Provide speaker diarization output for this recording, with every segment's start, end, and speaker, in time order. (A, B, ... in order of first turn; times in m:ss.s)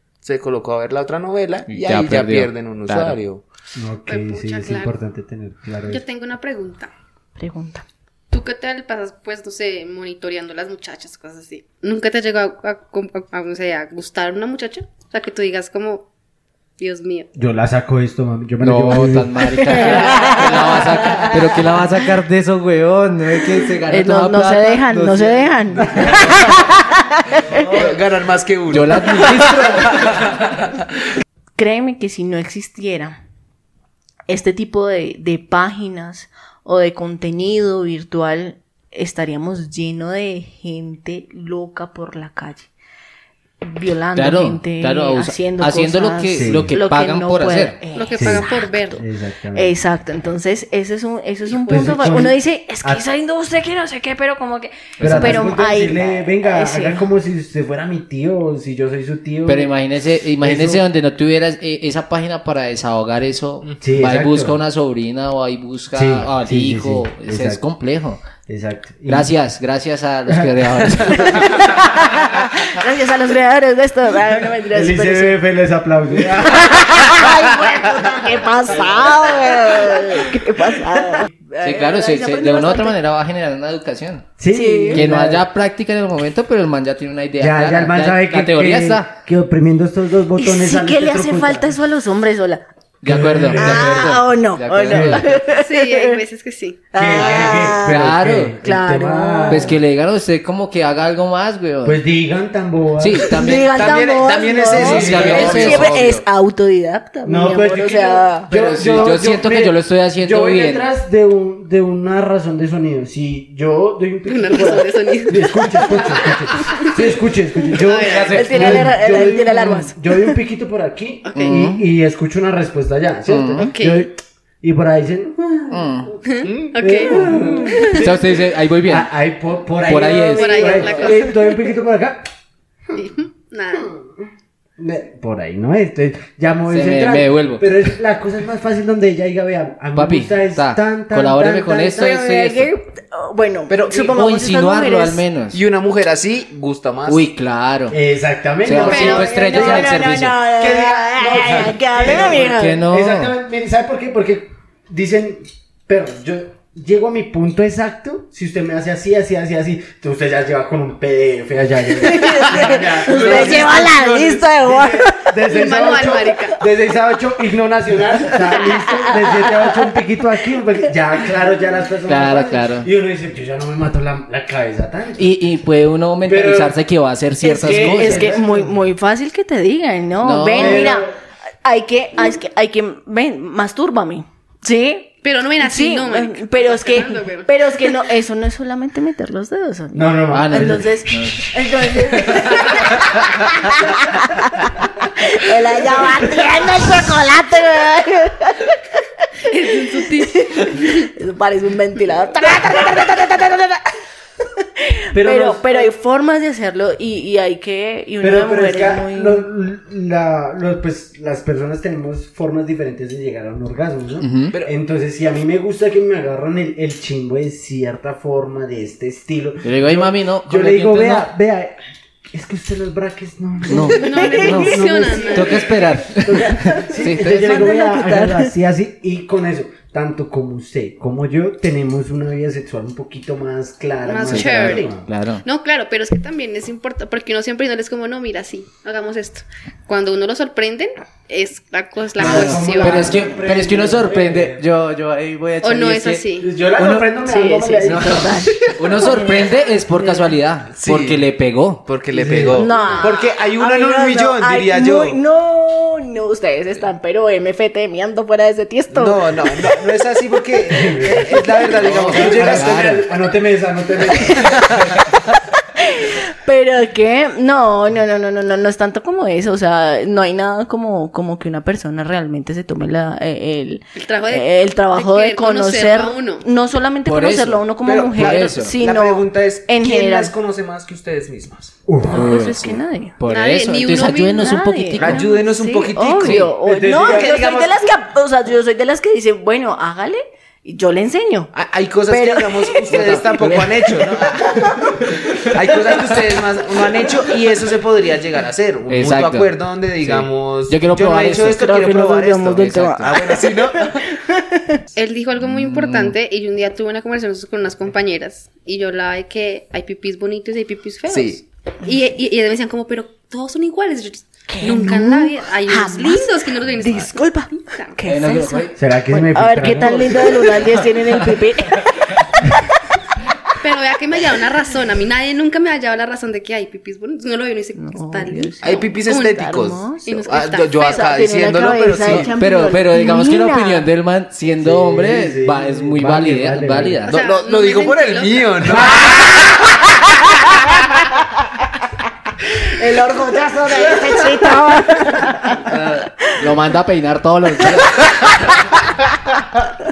0:00.2-0:03.4 A
0:01.7-0:03.2 B
0:03.7-0:06.0 C
0:04.0-0:04.9 D
0:05.9-0:06.9 D
0:07.4-0:07.8 E
0:08.3-0:16.1 D
0:16.8-0:17.3 D
0:17.3-0:20.2 C
0:18.6-0:26.6 B
0:19.5-0:21.6 E
0:23.8-0:27.7 E
0:27.5-0:27.9 B
0:27.5-0:30.6 A
0:28.7-0:30.4 B
0:31.6-0:33.2 E
0:34.3-0:42.7 E
0:43.6-0:49.0 E
0:44.2-0:47.8 B
0:46.3-0:46.7 C
0:47.9-0:49.0 D
0:48.2-0:49.7 C
0:49.5-0:57.0 E
0:51.5-0:52.0 D
0:51.7-0:53.0 C
0:55.0-0:55.5 B
0:55.0-0:59.7 C
0:59.4-1:08.2 B
1:00.4-1:00.8 C
1:03.8-1:04.6 C
1:05.9-1:07.6 C
1:08.5-1:09.3 C
1:09.1-1:11.6 B
1:10.3-1:11.4 C
1:11.1-1:15.4 E
1:14.7-1:17.2 C
1:16.4-1:23.0 E
1:18.8-1:19.9 C
1:21.6-1:24.3 B
1:24.4-1:25.4 C
1:24.5-1:25.1 E
1:24.9-1:29.2 B
1:27.4-1:31.7 C
1:30.4-1:32.6 E
1:33.0-1:35.4 B
1:33.0-1:34.1 C
1:33.6-1:36.2 E
1:34.9-1:35.2 C
1:35.6-1:36.8 D
1:36.9-1:38.0 E
1:36.9-1:39.8 C
1:37.6-1:38.6 B
1:38.6-1:39.7 E
1:39.5-1:42.0 B
1:41.8-1:43.4 C
1:43.0-1:43.9 B
1:43.2-1:48.5 E
1:43.3-1:46.2 A
1:44.7-1:46.2 B
1:44.8-1:45.8 C
1:47.2-2:05.8 C
1:48.5-1:50.9 B
1:54.2-1:56.9 D
1:57.7-1:58.4 D
1:57.9-1:58.9 B
1:58.3-2:00.4 E
2:01.3-2:01.6 D
2:01.3-2:01.8 B
2:03.3-2:03.7 B
2:03.6-2:04.1 D
2:05.7-2:06.2 B
2:06.2-2:07.5 D
2:06.4-2:06.8 A
2:06.8-2:12.3 C
2:07.2-2:08.0 E
2:07.8-2:09.1 B
2:09.8-2:11.1 B
2:10.2-2:11.4 D
2:12.9-2:13.9 D
2:14.8-2:22.2 C
2:16.7-2:17.8 B
2:19.9-2:22.7 B
2:21.9-2:25.2 E
2:23.7-2:24.1 A
2:24.0-2:25.6 B
2:25.5-2:27.2 A
2:27.0-2:28.0 B
2:27.9-2:43.9 C
2:28.6-2:30.4 B
2:28.7-2:32.8 E
2:28.8-2:29.2 D
2:32.1-2:33.3 B
2:42.0-2:45.3 E
2:42.4-2:44.5 A
2:44.6-2:55.3 C
2:45.5-2:46.6 D
2:48.3-2:50.0 E
2:52.0-2:52.9 B
2:55.2-2:58.4 B
2:56.2-2:56.8 C
2:57.4-3:01.1 E
2:57.5-2:58.8 C
3:00.2-3:01.0 B
3:00.5-3:01.1 C
3:01.6-3:23.9 E
3:05.2-3:07.9 D
3:09.9-3:10.9 C
3:10.3-3:11.5 B
3:12.0-3:12.6 C
3:19.5-3:21.1 D
3:24.6-3:29.4 E
3:25.1-3:25.9 C
3:28.2-3:41.8 C
3:34.2-3:34.6 B
3:39.6-3:41.2 B
3:42.3-3:55.0 C
3:43.7-3:47.7 B
3:43.9-3:45.7 D
3:44.2-3:44.5 E
3:46.7-3:48.5 E
3:54.0-4:03.2 D
3:54.2-3:55.4 B
4:02.2-4:04.6 C
4:02.2-4:06.2 B
4:05.6-4:06.5 D
4:06.4-4:09.0 C
4:07.2-4:10.3 E
4:07.8-4:11.9 B
4:10.7-4:11.2 A
4:11.8-4:15.2 A
4:12.1-4:13.0 C
4:12.5-4:19.9 E
4:18.9-4:23.1 A
4:20.7-4:25.0 C
4:21.4-4:21.6 E
4:21.7-4:23.0 B
4:24.3-4:24.6 E
4:24.4-4:24.9 A
4:25.7-4:40.3 E
4:34.0-4:36.4 D
4:37.0-4:38.8 B
4:37.8-4:41.8 A
4:41.8-4:42.3 C
4:42.0-4:43.2 E
4:42.1-4:45.2 B
4:43.2-4:44.4 D
4:44.1-4:51.5 E
4:45.0-4:47.7 A
4:46.2-4:46.5 B
4:46.6-4:47.4 C
4:51.5-5:04.0 A
4:52.1-4:53.3 E
4:52.9-4:53.8 B
4:54.4-4:54.7 E
4:58.9-5:01.6 B
5:01.4-5:04.8 E
5:02.5-5:03.2 B
5:04.9-5:18.0 D
5:05.4-5:06.2 B
5:11.1-5:11.4 A
5:14.5-5:22.6 E
5:18.0-5:18.8 B
5:18.7-5:20.7 C
5:20.1-5:21.4 B
5:23.6-5:29.4 D
5:27.7-5:30.2 E
5:28.6-5:32.3 A
5:30.0-5:31.1 D
5:30.8-5:33.8 E
5:32.0-5:37.2 B
5:34.6-5:37.0 C
5:37.1-5:39.9 A
5:37.1-5:38.8 D
5:38.8-5:39.2 C
5:40.0-5:40.6 E
5:42.6-5:46.4 E
5:45.5-5:48.6 B
5:48.2-5:48.6 E